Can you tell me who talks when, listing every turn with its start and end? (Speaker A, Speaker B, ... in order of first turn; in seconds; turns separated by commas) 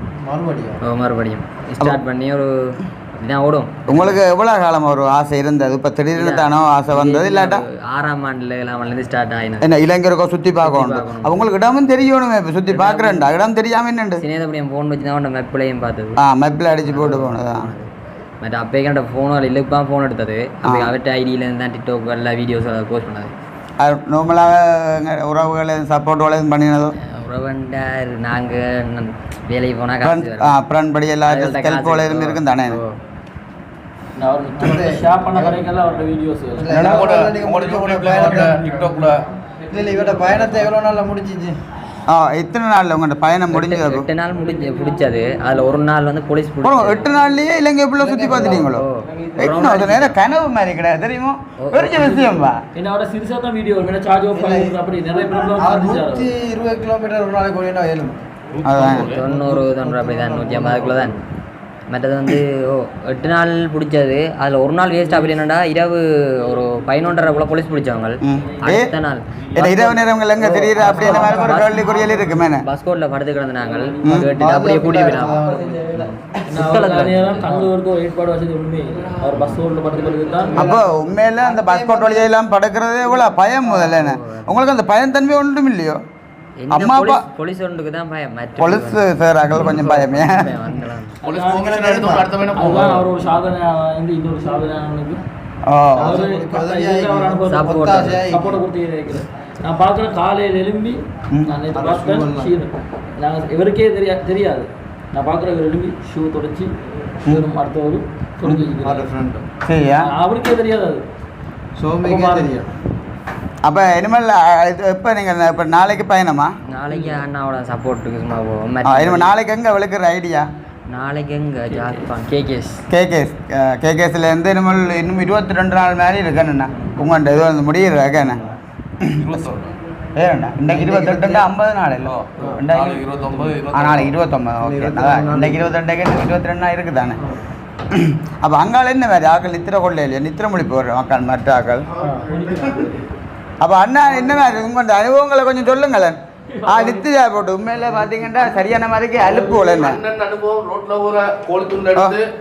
Speaker A: 0.2-0.8, Speaker B: 0.8-4.2, Speaker C: 3.9-7.6, Speaker B: 6.2-9.7, Speaker C: 9.6-14.2, Speaker B: 10.6-11.4, Speaker B: 12.7-13.3, Speaker B: 14.2-16.2, Speaker C: 16.2-17.7, Speaker B: 16.9-17.9, Speaker B: 18.4-23.3, Speaker C: 20.6-20.9, Speaker C: 23.8-26.9, Speaker B: 27.2-30.6, Speaker C: 30.0-32.8, Speaker B: 31.3-33.0, Speaker D: 34.2-36.7, Speaker A: 34.6-35.7, Speaker A: 36.5-38.6, Speaker E: 36.7-39.2, Speaker D: 38.5-40.6, Speaker A: 39.7-41.6, Speaker E: 39.9-40.6, Speaker C: 42.1-44.1, Speaker B: 43.5-47.1, Speaker D: 44.5-45.7, Speaker C: 46.6-52.6, Speaker A: 48.0-48.7, Speaker B: 48.3-50.2, Speaker B: 51.6-52.4, Speaker D: 52.8-56.3, Speaker A: 54.3-61.2, Speaker E: 58.5-59.2, Speaker C: 58.6-59.1, Speaker B: 58.9-61.1, Speaker B: 61.9-77.7, Speaker C: 68.2-68.9, Speaker C: 69.5-72.7, Speaker A: 70.6-71.4, Speaker C: 74.0-74.3, Speaker A: 74.3-76.0, Speaker D: 76.5-80.5, Speaker B: 79.3-79.6, Speaker A: 79.9-82.3, Speaker C: 80.6-86.0, Speaker B: 83.7-84.6, Speaker B: 86.6-91.2, Speaker C: 86.7-87.2, Speaker C: 88.6-90.5, Speaker E: 91.2-93.1, Speaker A: 91.3-92.9, Speaker D: 91.3-91.7, Speaker D: 92.6-95.2, Speaker C: 95.7-96.2, Speaker A: 96.0-98.6, Speaker D: 96.1-97.6, Speaker B: 97.5-98.2, Speaker D: 98.3-106.7, Speaker A: 101.7-102.5, Speaker D: 107.3-109.1, Speaker A: 108.4-109.5, Speaker C: 109.7-110.1, Speaker D: 110.0-111.0, Speaker A: 111.8-112.7, Speaker D: 112.1-112.6, Speaker C: 113.7-116.5, Speaker B: 116.7-119.3, Speaker C: 118.8-120.5, Speaker B: 120.9-122.8, Speaker C: 122.9-128.4, Speaker C: 129.0-129.4, Speaker E: 129.2-129.7, Speaker C: 130.2-133.0, Speaker A: 130.7-131.5, Speaker A: 132.4-132.6, Speaker E: 132.7-134.1, Speaker C: 133.7-137.2, Speaker A: 134.6-135.6, Speaker C: 137.9-141.9, Speaker E: 142.0-143.0, Speaker D: 142.0-142.7, Speaker C: 143.6-150.0, Speaker D: 146.7-147.0, Speaker E: 149.2-152.2